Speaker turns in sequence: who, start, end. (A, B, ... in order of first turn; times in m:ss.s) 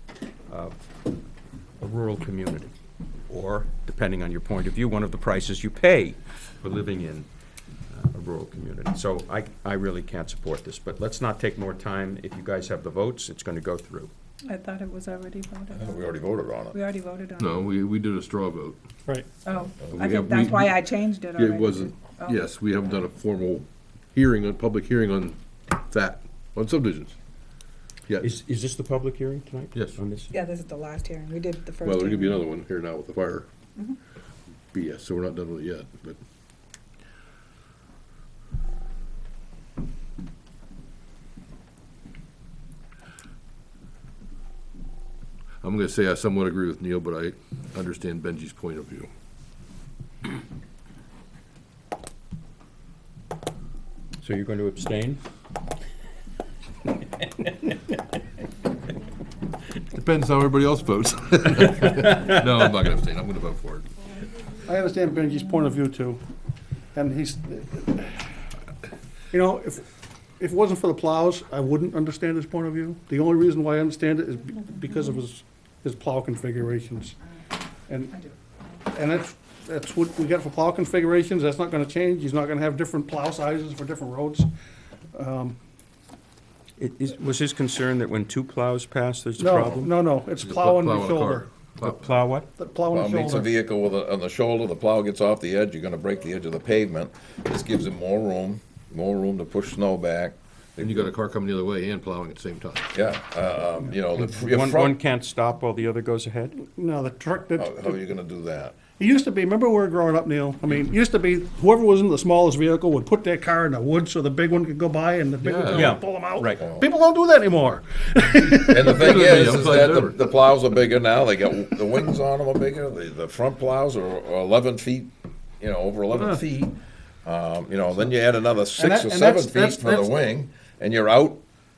0:00.5-0:00.8 A
0:01.8-0:02.7 A
0:03.3-0:07.3 A
0:07.9-0:14.1 A
0:14.4-0:17.5 B
0:15.7-0:16.8 C
0:17.4-0:18.8 D
0:19.4-0:22.4 B
0:19.9-0:27.1 D
0:28.2-0:30.3 A
0:30.3-0:32.5 B
0:31.8-0:33.5 D
0:34.7-0:36.2 D
0:45.6-0:49.1 D
0:54.2-0:55.2 A
0:59.9-1:03.9 D
1:04.6-1:06.2 E
1:06.9-1:08.2 E
1:09.3-1:09.8 E
1:10.4-1:17.2 E
1:17.9-1:18.2 E
1:18.9-1:24.5 E
1:25.1-1:25.6 E
1:26.8-1:29.9 A
1:29.4-1:31.5 E
1:30.4-1:32.1 D
1:31.8-1:32.5 A
1:32.6-1:33.5 E
1:32.9-1:41.1 C
1:40.8-1:42.9 D
1:42.9-1:45.0 C
1:44.1-1:46.6 A
1:46.6-1:48.0 E
1:47.5-1:48.8 C
1:49.0-1:59.2 E
1:55.4-1:56.0 D
1:55.7-1:56.6 A
1:58.7-2:11.4 C
1:58.8-2:00.2 D
2:06.1-2:06.4 E
2:08.8-2:10.1 E